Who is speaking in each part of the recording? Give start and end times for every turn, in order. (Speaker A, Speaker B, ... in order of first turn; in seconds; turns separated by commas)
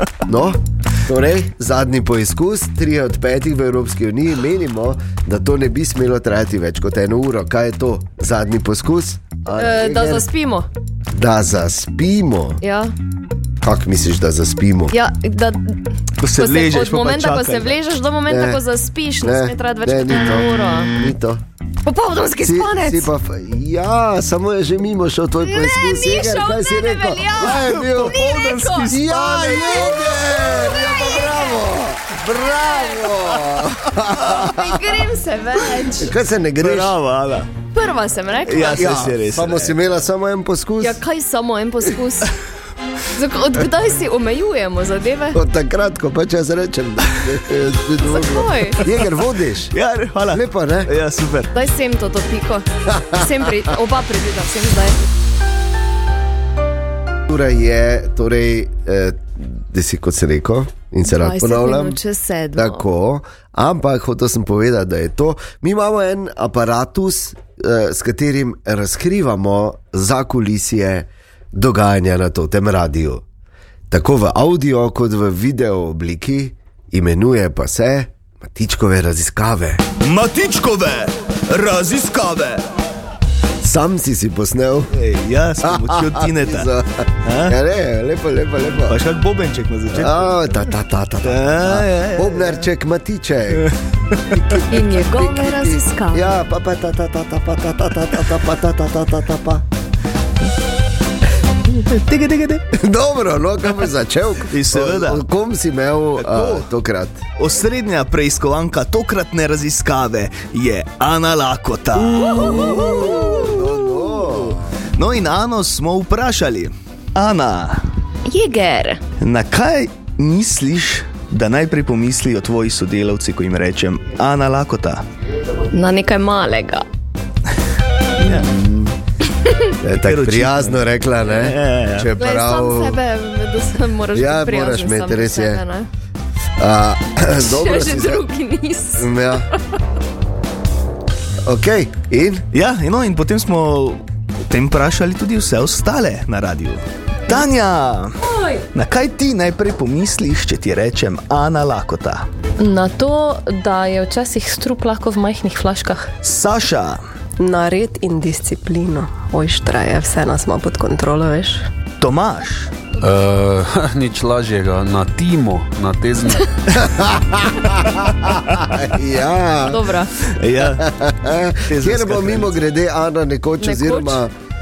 Speaker A: 0.2-10.3, Speaker B: 9.6-10.7, Speaker A: 11.1-12.6, Speaker B: 12.6-12.9, Speaker A: 13.6-14.9, Speaker B: 14.9-15.8, Speaker C: 16.2-17.8, Speaker B: 16.3-20.9, Speaker A: 18.3-18.6, Speaker A: 19.2-21.4, Speaker B: 21.8-23.1, Speaker A: 22.4-28.2, Speaker B: 25.4-31.6, Speaker C: 27.4-29.7, Speaker A: 28.8-34.8, Speaker B: 32.6-33.1, Speaker B: 34.1-36.1, Speaker A: 35.9-36.9, Speaker C: 36.6-37.5, Speaker B: 37.7-39.0, Speaker C: 38.5-39.7, Speaker A: 38.6-41.0, Speaker B: 40.8-42.3, Speaker B: 43.1-45.4, Speaker A: 45.3-49.7, Speaker B: 48.0-48.8, Speaker C: 49.7-51.5, Speaker A: 50.3-50.9, Speaker B: 51.5-55.0, Speaker A: 52.9-53.2, Speaker A: 57.3-62.0, Speaker B: 61.0-62.8, Speaker A: 62.5-73.2, Speaker A: 73.9-79.8, Speaker C: 80.0-82.6, Speaker A: 83.6-84.9, Speaker C: 84.9-86.7, Speaker A: 85.6-89.0, Speaker C: 87.2-87.5, Speaker C: 88.9-90.3, Speaker A: 89.9-93.7, Speaker C: 91.2-92.7, Speaker C: 93.6-94.6, Speaker A: 94.3-99.6, Speaker B: 94.7-96.3, Speaker C: 101.7-102.6, Speaker A: 102.7-107.2, Speaker C: 104.5-105.2, Speaker C: 106.2-106.7, Speaker C: 107.4-117.8, Speaker A: 112.2-114.8, Speaker B: 112.2-113.1, Speaker B: 118.2-119.0, Speaker C: 119.2-125.0, Speaker B: 125.7-126.8, Speaker C: 128.2-128.9, Speaker A: 129.8-133.0, Speaker C: 130.0-132.1, Speaker B: 132.2-135.9, Speaker A: 134.1-135.6, Speaker A: 136.6-138.2, Speaker B: 137.4-139.6, Speaker A: 139.0-139.5, Speaker A: 141.4-142.4, Speaker C: 142.5-148.2, Speaker C: 148.7-152.3, Speaker D: 152.6-156.1, Speaker C: 156.2-157.0, Speaker E: 157.4-161.7, Speaker C: 162.0-162.7, Speaker F: 163.0-166.5, Speaker A: 166.8-169.8, Speaker B: 169.7-170.1, Speaker C: 170.3-170.8, Speaker A: 170.8-174.3, Speaker C: 171.7-172.5, Speaker B: 173.6-174.2